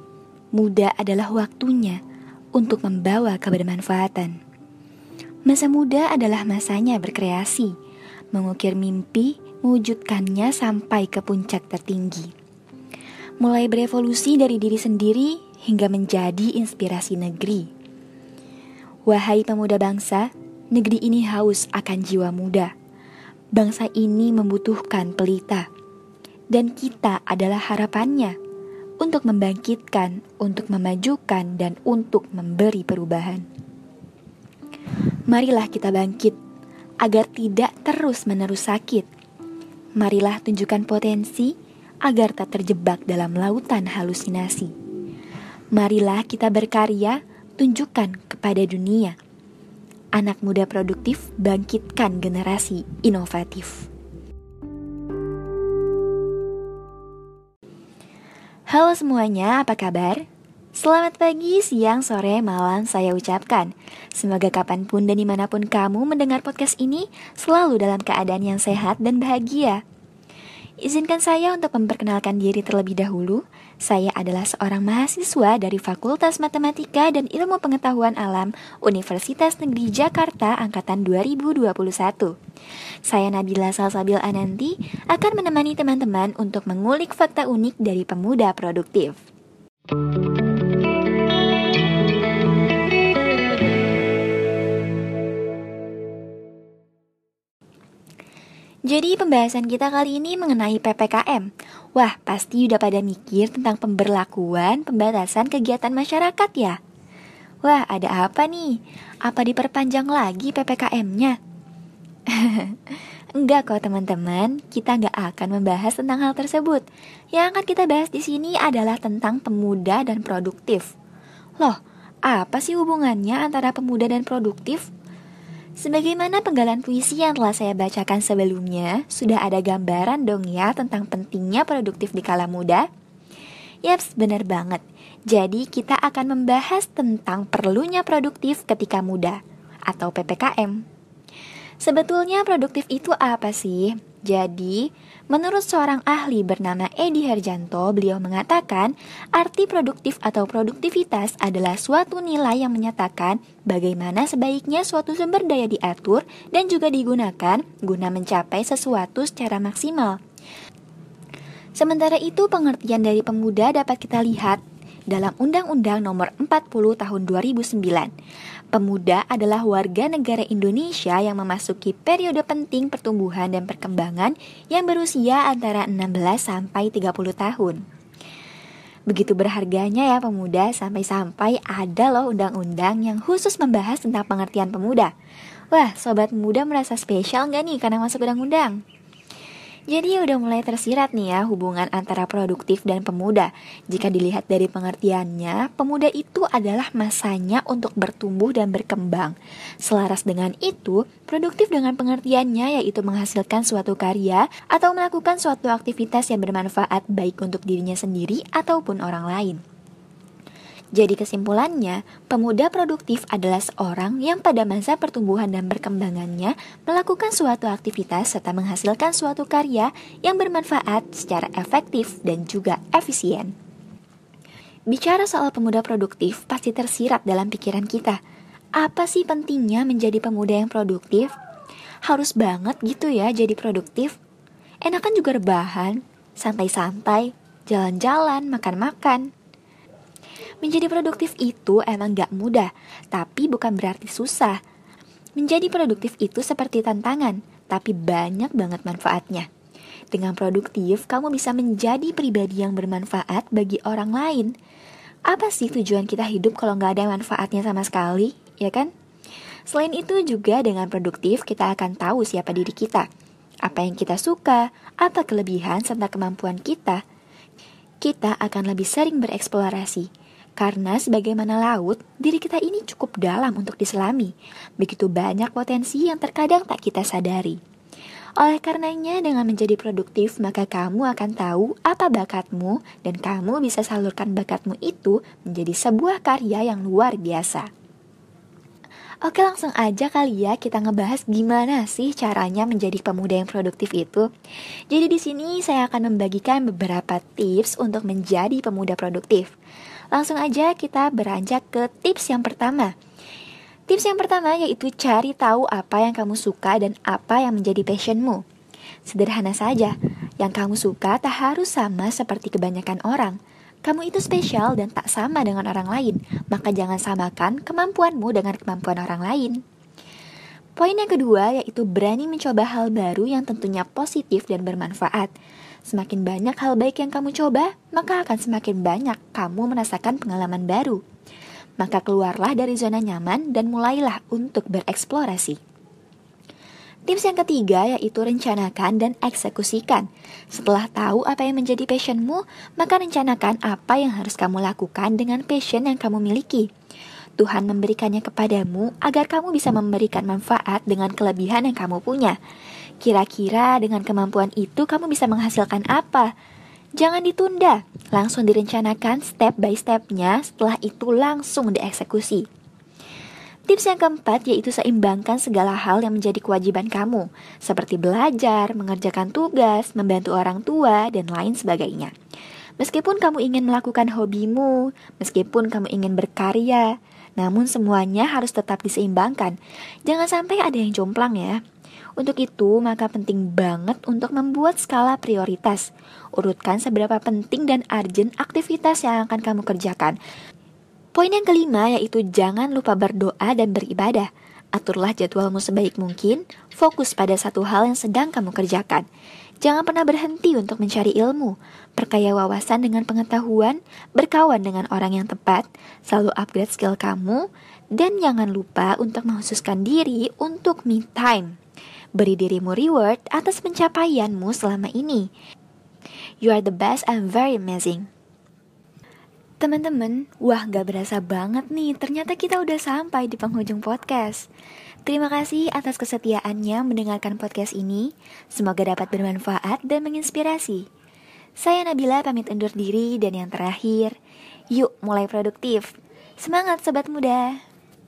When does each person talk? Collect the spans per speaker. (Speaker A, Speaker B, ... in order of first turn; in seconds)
Speaker A: 0.5-2.0, 2.5-4.4, 5.5-7.7, 8.3-12.3, 13.4-17.7, 19.1-22.7, 23.5-25.7, 26.5-28.4, 29.0-33.5, 35.3-36.4, 37.0-39.0, 40.0-44.7, 45.7-49.2, 50.1-53.9, 58.7-60.2, 60.8-69.8, 70.8-82.3, 83.1-89.2, 98.8-106.8, 107.6-111.4, 112.2-120.9, 121.6-124.9, 125.8-132.8, 133.8-140.8, 141.8-160.2, 161.8-168.1, 168.7-177.8, 179.1-185.1, 185.7-188.8, 189.9-209.6, 210.9-223.5, 224.9-228.2, 228.8-231.3, 232.0-234.2, 234.8-239.3, 240.6-244.6, 245.4-249.5, 250.1-254.5, 255.3-258.9, 259.7-263.1, 263.6-267.0, 268.0-277.6, 278.4-287.7, 289.2-294.3, 294.9-299.5, 300.1-302.9, 303.9-308.4, 309.1-319.6, 320.8-325.3, 325.9-331.0, 331.8-335.6, 337.1-346.7, 347.4-352.4, 353.0-356.3, 357.0-362.4, 363.7-372.1, 372.8-381.6, 382.2-385.8, 386.4-390.2, 391.1-399.1, 399.6-411.6, 412.2-415.3, 416.4-418.1, 419.6-424.5, 425.1-430.9, 431.6-434.2, 434.7-437.6